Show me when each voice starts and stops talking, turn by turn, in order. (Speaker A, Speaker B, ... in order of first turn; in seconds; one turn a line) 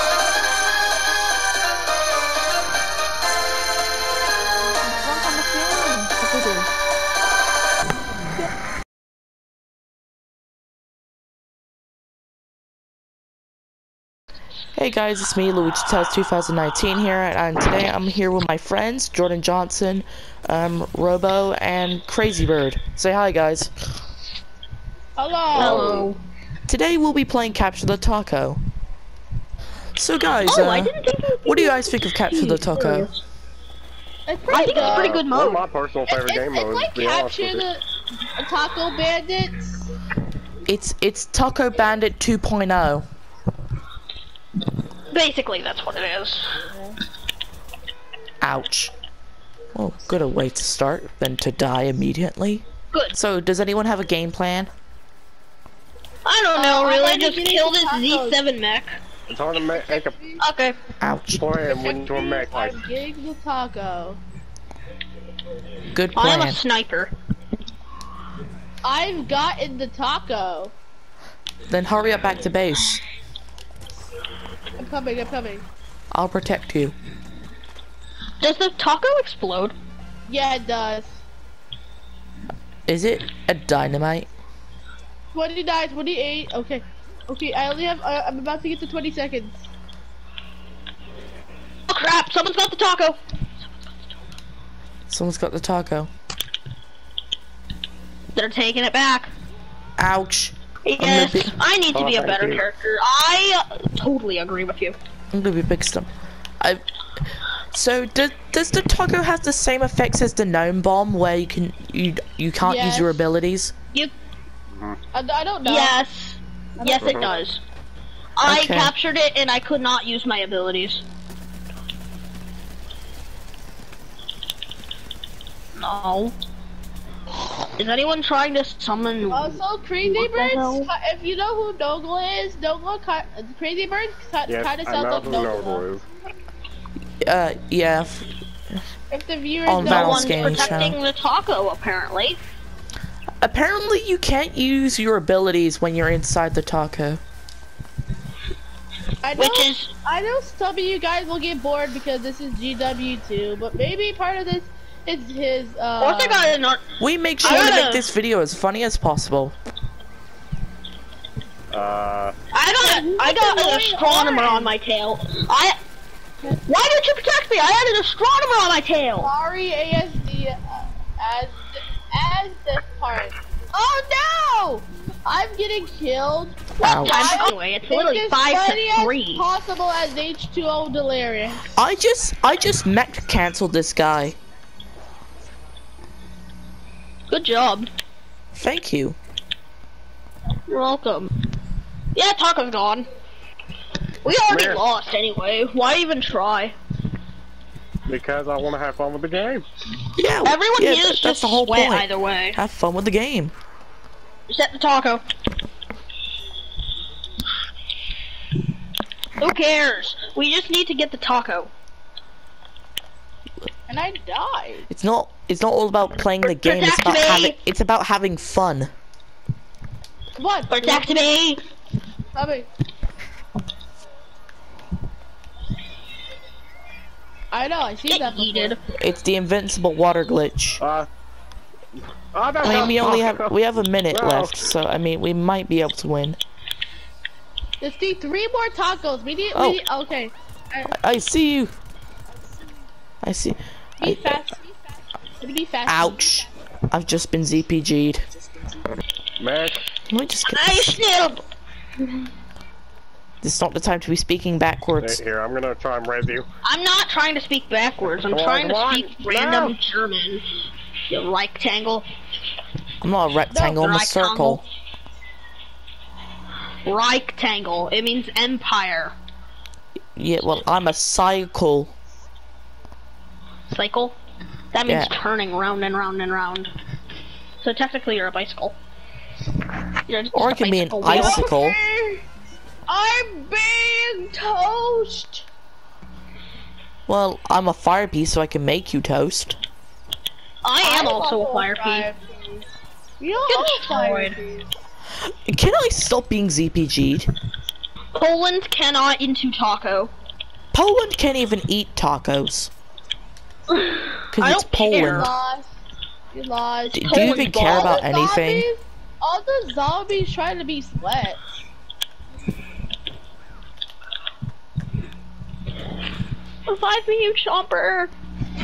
Speaker A: 5.1-6.6
Speaker B: 14.7-23.7
Speaker A: 25.2-25.9
Speaker C: 25.5-26.1
Speaker D: 25.6-26.2
Speaker B: 26.7-28.6
Speaker B: 30.0-33.1
Speaker D: 30.5-33.2
Speaker A: 34.3-35.2
Speaker D: 34.5-35.7
Speaker C: 34.6-37.6
Speaker A: 36.1-37.8
Speaker A: 38.4-39.8
Speaker B: 40.7-43.0
Speaker D: 45.1-46.5
Speaker B: 48.4-48.9
Speaker B: 49.7-54.7
Speaker D: 56.3-59.0
Speaker A: 56.5-58.4
Speaker C: 59.3-60.2
Speaker A: 59.7-60.4
Speaker D: 60.4-60.8
Speaker B: 61.0-61.5
Speaker C: 61.4-62.8
Speaker A: 61.7-64.2
Speaker B: 65.9-66.6
Speaker D: 66.2-67.1
Speaker A: 68.8-70.7
Speaker B: 71.7-73.0
Speaker A: 74.8-75.7
Speaker B: 76.1-77.0
Speaker D: 78.4-79.8
Speaker A: 80.3-81.2
Speaker B: 82.9-84.3
Speaker A: 85.3-89.6
Speaker D: 91.9-93.2
Speaker B: 95.1-96.1
Speaker D: 98.3-99.3
Speaker B: 100.0-101.5
Speaker D: 100.9-105.0
Speaker C: 101.9-102.7
Speaker B: 105.3-106.1
Speaker B: 107.7-113.7
Speaker A: 112.6-113.2
Speaker C: 114.7-115.0
Speaker A: 115.1-115.9
Speaker D: 115.6-117.6
Speaker A: 116.8-117.4
Speaker C: 116.9-117.3
Speaker D: 118.4-121.0
Speaker B: 118.4-118.9
Speaker D: 125.8-126.3
Speaker D: 127.8-130.9
Speaker A: 129.3-135.8
Speaker C: 134.5-136.1
Speaker B: 137.2-138.8
Speaker A: 139.1-140.9
Speaker B: 139.7-141.0
Speaker D: 139.8-142.4
Speaker B: 143.4-147.2
Speaker A: 149.2-156.5
Speaker D: 149.4-149.9
Speaker D: 156.0-156.8
Speaker B: 157.0-159.6
Speaker D: 157.4-158.1
Speaker C: 161.7-162.3
Speaker D: 162.5-165.8
Speaker A: 162.8-164.7
Speaker D: 166.7-169.3
Speaker A: 169.2-181.7
Speaker D: 176.8-179.4
Speaker B: 176.8-177.4
Speaker B: 181.8-184.4
Speaker D: 187.3-187.9
Speaker B: 188.6-189.2
Speaker D: 190.7-191.3
Speaker D: 192.2-193.1
Speaker D: 194.2-196.8
Speaker C: 194.5-194.8
Speaker C: 198.1-199.6
Speaker B: 200.2-203.5
Speaker D: 200.3-202.6
Speaker D: 204.5-205.2
Speaker D: 209.4-211.7
Speaker A: 213.9-214.9
Speaker B: 214.9-218.9
Speaker D: 216.4-217.6
Speaker A: 220.4-221.2
Speaker D: 220.7-221.6
Speaker A: 222.3-222.7
Speaker A: 227.5-228.8
Speaker D: 228.1-228.8
Speaker B: 229.0-230.8
Speaker C: 230.8-231.1
Speaker C: 232.3-233.6
Speaker B: 232.6-236.4
Speaker C: 234.1-234.7
Speaker A: 237.8-240.9
Speaker B: 239.5-239.8
Speaker B: 241.0-241.7
Speaker B: 243.2-244.4
Speaker A: 244.0-244.7
Speaker A: 245.4-246.5
Speaker B: 245.9-248.3
Speaker C: 249.4-249.8
Speaker B: 250.1-251.0
Speaker D: 250.5-251.4
Speaker B: 253.4-255.2
Speaker C: 255.0-256.5
Speaker D: 256.6-260.4
Speaker C: 258.1-259.8
Speaker D: 261.1-262.1
Speaker B: 263.0-264.6
Speaker D: 263.5-264.6
Speaker D: 266.9-269.1
Speaker B: 270.1-271.9
Speaker D: 273.7-274.2
Speaker D: 274.7-276.7
Speaker B: 274.9-275.1
Speaker D: 277.6-278.8
Speaker D: 280.1-281.5
Speaker B: 280.3-281.8
Speaker A: 281.1-282.2
Speaker A: 282.9-285.4
Speaker B: 287.1-289.6
Speaker D: 290.6-292.1
Speaker A: 290.8-292.2
Speaker A: 293.2-294.6
Speaker D: 293.5-294.4
Speaker B: 295.2-297.3
Speaker D: 298.1-300.1
Speaker B: 300.7-302.7
Speaker D: 303.8-305.3
Speaker B: 304.3-305.3
Speaker A: 305.1-305.7
Speaker A: 306.3-311.4
Speaker B: 306.9-308.7
Speaker D: 307.0-308.0
Speaker D: 316.7-318.1